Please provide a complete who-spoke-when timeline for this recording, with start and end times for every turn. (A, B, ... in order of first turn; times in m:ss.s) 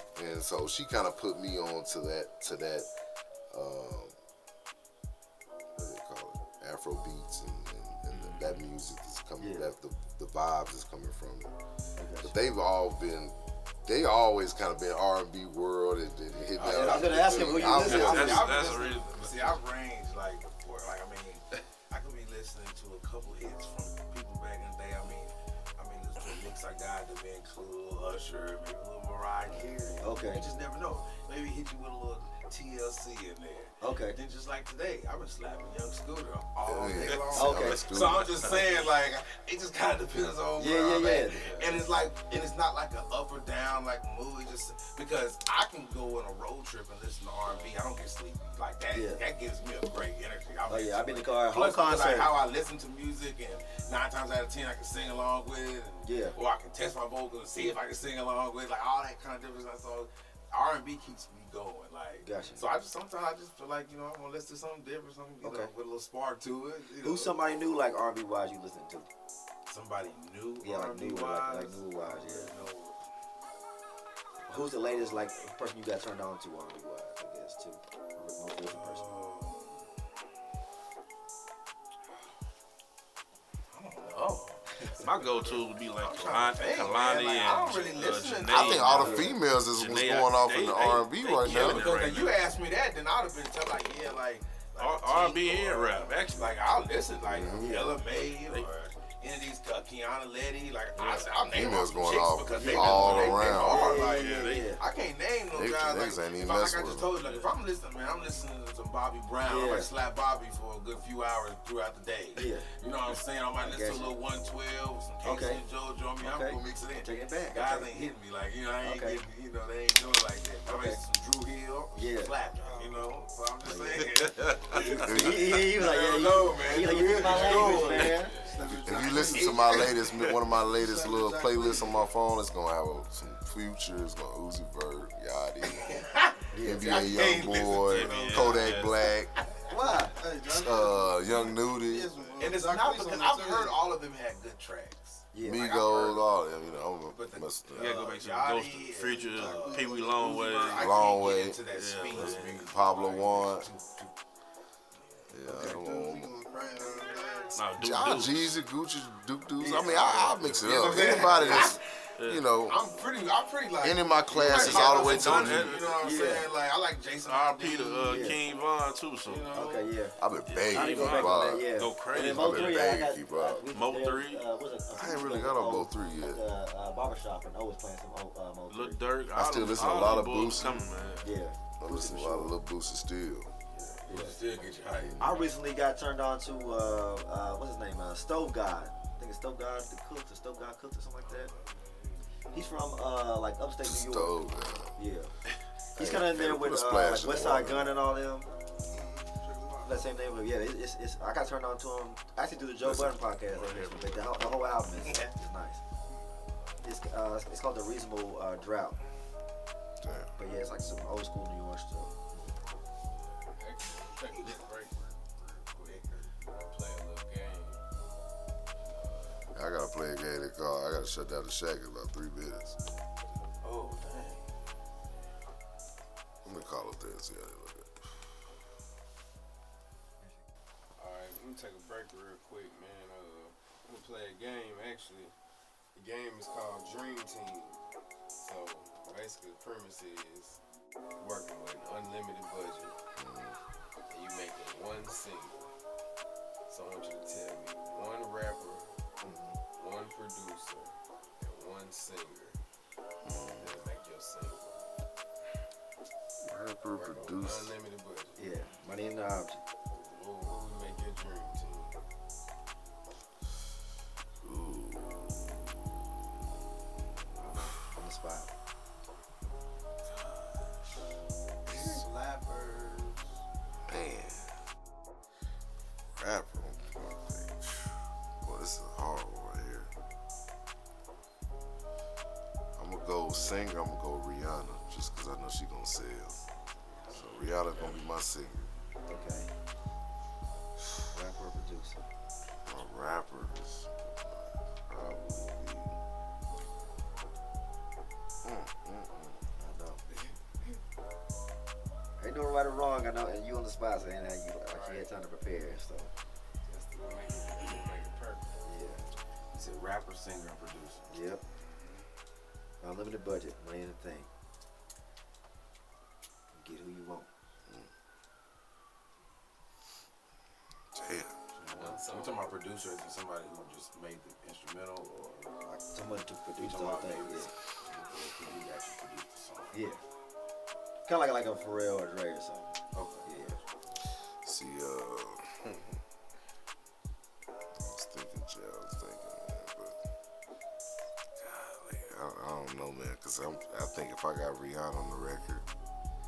0:00.2-0:02.9 A
0:03.5-0:04.1 A
0:05.8-0:11.5 A
0:08.1-0:08.6 B
0:09.4-0:09.7 C
0:12.0-0:12.4 C
0:12.2-0:18.4 A
0:16.6-1:07.4 D
0:16.6-0:18.6 C
0:17.6-0:19.6 B
0:29.5-0:30.5 C
0:33.8-0:34.2 C
0:36.6-0:38.4 A
0:37.0-0:38.8 B
0:37.3-0:37.9 C
0:40.6-0:41.7 C
0:48.9-0:49.2 C
0:50.7-0:52.4 C
0:56.0-0:56.4 C
1:02.2-1:02.7 C
1:05.4-1:05.7 C
1:07.0-1:09.1 C
1:09.7-1:13.0 D
1:10.6-1:12.5 C
1:14.5-1:19.1 C
1:14.5-1:15.3 D
1:18.6-1:19.9 D
1:23.7-1:29.3 D
1:25.0-1:32.4 B
1:28.4-1:31.9 A
1:28.8-1:29.3 C
1:31.4-2:10.1 D
1:34.8-1:36.6 B
1:37.2-1:37.7 A
1:37.6-1:38.1 C
1:41.0-1:41.4 B
1:41.5-1:44.1 A
1:42.6-1:44.8 C
1:42.6-1:44.7 B
1:45.5-1:47.1 A
1:47.0-1:47.5 B
1:49.4-1:49.9 C
1:52.4-1:52.7 C
1:53.6-1:54.2 C
1:55.2-1:55.6 C
1:56.2-1:58.0 C
1:58.8-1:59.2 C
2:00.6-2:01.0 C
2:01.9-2:02.3 C
2:02.6-2:03.1 E
2:03.6-2:04.2 C
2:04.4-2:05.0 B
2:04.7-2:08.4 C
2:05.0-2:05.5 A
2:07.4-2:09.8 E
2:07.5-2:08.1 B
2:07.6-2:08.6 F
2:08.7-2:15.9 A
2:10.7-2:12.0 E
2:15.6-2:19.7 D
2:16.5-2:17.3 C
2:16.6-2:19.3 A
2:17.8-2:19.0 B
2:19.7-2:20.2 C
2:20.1-2:23.8 E
2:20.5-2:22.1 A
2:22.4-2:26.3 D
2:25.3-2:25.7 C
2:25.4-2:28.0 A
2:27.1-2:34.1 D
2:27.7-2:30.9 B
2:29.4-2:30.3 E
2:30.8-2:31.6 A
2:31.7-2:32.7 B
2:32.2-2:33.7 A
2:35.3-2:36.3 A
2:35.5-2:35.8 C
2:35.5-2:37.7 E
2:37.5-2:38.6 B
2:37.8-2:42.9 A
2:39.6-2:40.0 C
2:39.8-2:42.5 B
2:40.6-2:41.8 D
2:42.7-2:48.3 D
2:43.8-2:45.8 A
2:44.4-2:46.2 B
2:46.0-2:46.5 C
2:47.3-2:49.7 B
2:48.1-2:48.4 C
2:49.3-2:49.8 D
2:49.5-2:50.2 C
2:50.2-2:53.6 A
2:50.5-2:53.1 B
2:50.7-2:59.0 C
2:53.7-2:54.4 B
2:54.9-2:56.4 A
2:58.7-3:01.4 B
2:59.3-3:00.9 A
3:01.2-3:02.5 C
3:01.8-3:03.5 A
3:03.7-3:05.4 D
3:04.1-3:04.4 C
3:04.9-3:05.5 A
3:05.2-3:11.5 C
3:12.5-3:14.4 C
3:13.8-3:15.0 A
3:15.0-3:15.3 C
3:16.0-3:18.5 C
3:16.0-3:18.0 A
3:18.9-3:20.1 E
3:19.8-3:25.8 C
3:22.8-3:24.5 B
3:26.8-3:29.0 C
3:30.0-3:30.3 A
3:30.4-3:32.6 C
3:33.5-3:37.8 F
3:35.9-3:36.3 D
3:38.8-3:39.5 F
3:39.5-3:42.8 A
3:43.6-3:44.4 D
3:46.4-3:48.1 A
3:51.0-3:55.3 F
3:56.0-3:57.8 F
3:58.4-4:00.6 F
4:01.2-4:03.0 F
4:03.2-4:03.6 A
4:04.1-4:05.7 F
4:06.7-4:08.9 F
4:09.2-4:09.6 C
4:09.8-4:12.6 F
4:13.2-4:13.8 A
4:13.6-4:14.9 F
4:16.4-4:17.7 A
4:16.9-4:18.4 F
4:18.4-4:19.6 C
4:19.9-4:21.9 F
4:24.4-4:26.4 A
4:27.3-4:27.7 A
4:27.4-4:28.5 C
4:31.7-4:32.0 A
4:31.7-4:33.3 E
4:33.9-4:34.5 A
4:36.2-4:39.9 A
4:42.8-4:46.5 A
4:47.1-4:48.7 A
4:49.1-4:49.5 C
4:51.1-4:52.0 C
4:52.7-4:56.0 A
4:58.4-4:59.4 A
4:59.6-5:00.0 C
5:02.2-5:06.1 C
5:04.7-5:05.1 F
5:06.7-5:08.7 F
5:08.6-5:09.1 C
5:09.5-5:11.1 D
5:11.1-5:11.4 C
5:12.8-5:14.3 C
5:16.5-5:17.3 C
5:20.9-5:21.4 A
5:21.6-5:25.9 D
5:21.6-5:22.5 F
5:25.9-5:27.5 C
5:26.6-5:29.8 D
5:29.7-5:30.0 C
5:31.1-5:33.6 C
5:32.9-5:33.6 D
5:34.4-5:36.0 A
5:37.8-5:40.0 A
5:41.4-5:45.7 A